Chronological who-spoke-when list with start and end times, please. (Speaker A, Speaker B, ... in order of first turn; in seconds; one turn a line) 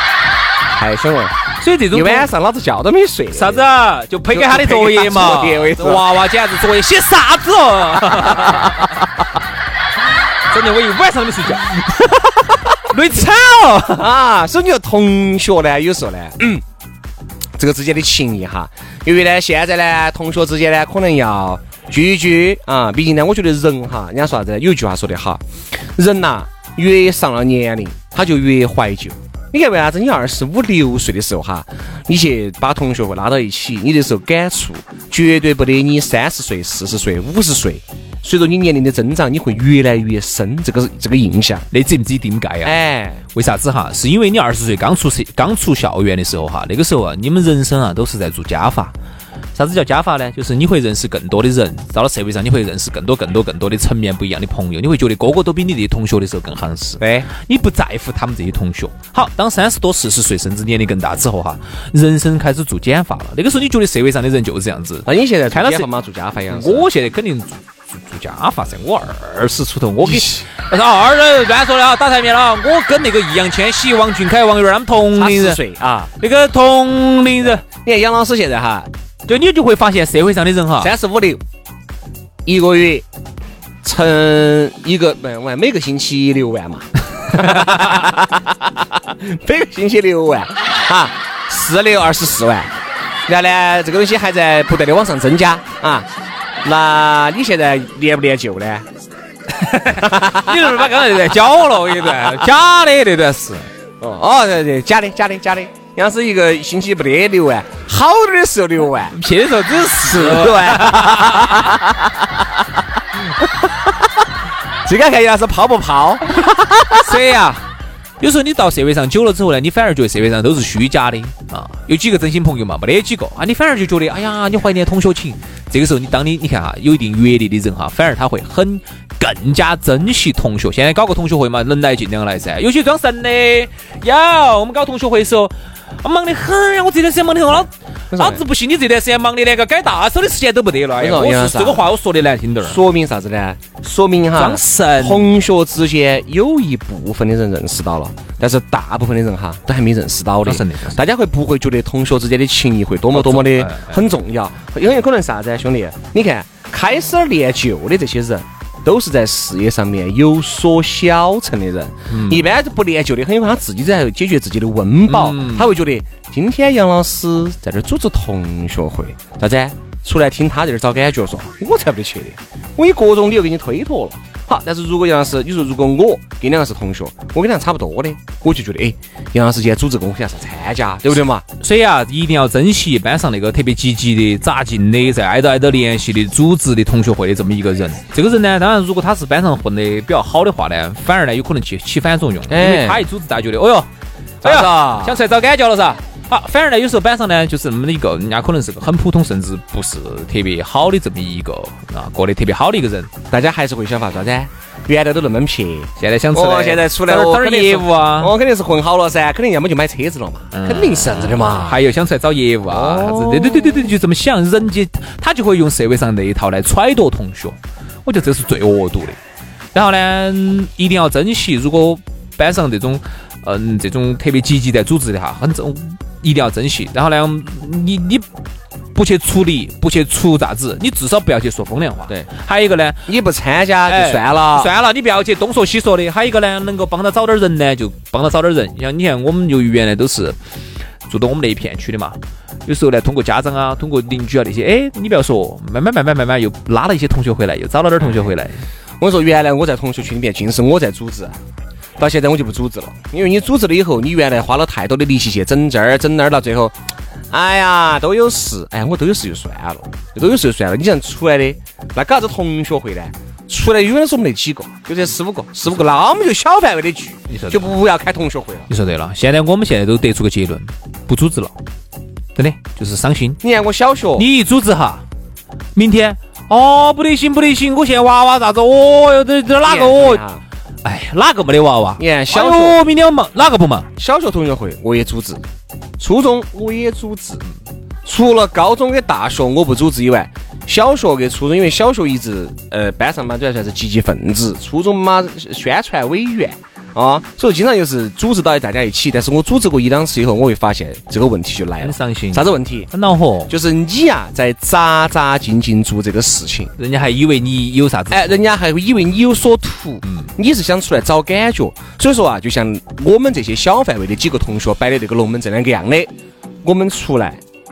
Speaker A: 0.7-1.3
Speaker B: 1.6-2.3
Speaker A: 1.9-3.7
Speaker B: 3.3-9.1
Speaker A: 4.3-6.1
Speaker B: 10.5-14.1
Speaker A: 14.0-16.6
Speaker A: 17.6-25.4
Speaker A: 25.9-41.6
Speaker B: 41.7-42.8
Speaker A: 42.6-43.2
Speaker B: 43.3-48.9
Speaker B: 49.5-65.9
Speaker A: 57.0-57.3
Speaker A: 65.0-66.9
Speaker B: 66.5-75.6
Speaker A: 70.0-70.5
Speaker A: 75.1-76.1
Speaker B: 76.2-77.6
Speaker A: 77.5-78.9
Speaker B: 79.2-80.9
Speaker A: 80.8-81.4
Speaker A: 82.5-83.0
Speaker A: 83.8-92.7
Speaker B: 87.4-88.0
Speaker A: 93.3-96.1
Speaker A: 96.6-98.8
Speaker B: 99.5-103.7
Speaker A: 100.0-100.8
Speaker A: 104.0-109.2
Speaker B: 109.1-111.7
Speaker A: 110.0-112.3
Speaker A: 114.8-117.2
Speaker B: 116.9-117.6
Speaker B: 118.2-142.8
Speaker A: 138.1-138.4
Speaker A: 141.0-141.9
Speaker A: 142.6-181.4
Speaker B: 144.3-145.3
Speaker B: 150.4-151.0
Speaker B: 153.1-154.2
Speaker B: 162.1-162.4
Speaker B: 165.1-165.7
Speaker B: 181.6-193.9
Speaker A: 192.5-193.1
Speaker A: 194.4-195.2
Speaker B: 194.4-203.1
Speaker A: 203.3-211.8
Speaker B: 206.0-208.3
Speaker B: 210.5-219.2
Speaker A: 212.7-213.9
Speaker B: 219.7-228.3
Speaker B: 228.9-233.1
Speaker A: 233.1-234.7
Speaker B: 233.8-240.4
Speaker B: 241.1-248.6
Speaker A: 249.0-251.3
Speaker A: 252.0-256.8
Speaker A: 257.3-268.7
Speaker B: 267.3-267.7
Speaker B: 268.7-271.6
Speaker B: 272.3-273.4
Speaker A: 273.4-274.3
Speaker B: 274.1-275.0
Speaker B: 275.7-280.2
Speaker A: 279.6-280.4
Speaker B: 280.8-283.9
Speaker A: 282.0-282.8
Speaker A: 284.0-285.4
Speaker A: 286.0-287.4
Speaker A: 288.0-302.9
Speaker B: 301.8-303.5
Speaker A: 303.5-306.7
Speaker B: 306.8-308.4
Speaker A: 308.1-316.1
Speaker B: 310.0-310.3
Speaker A: 316.6-317.4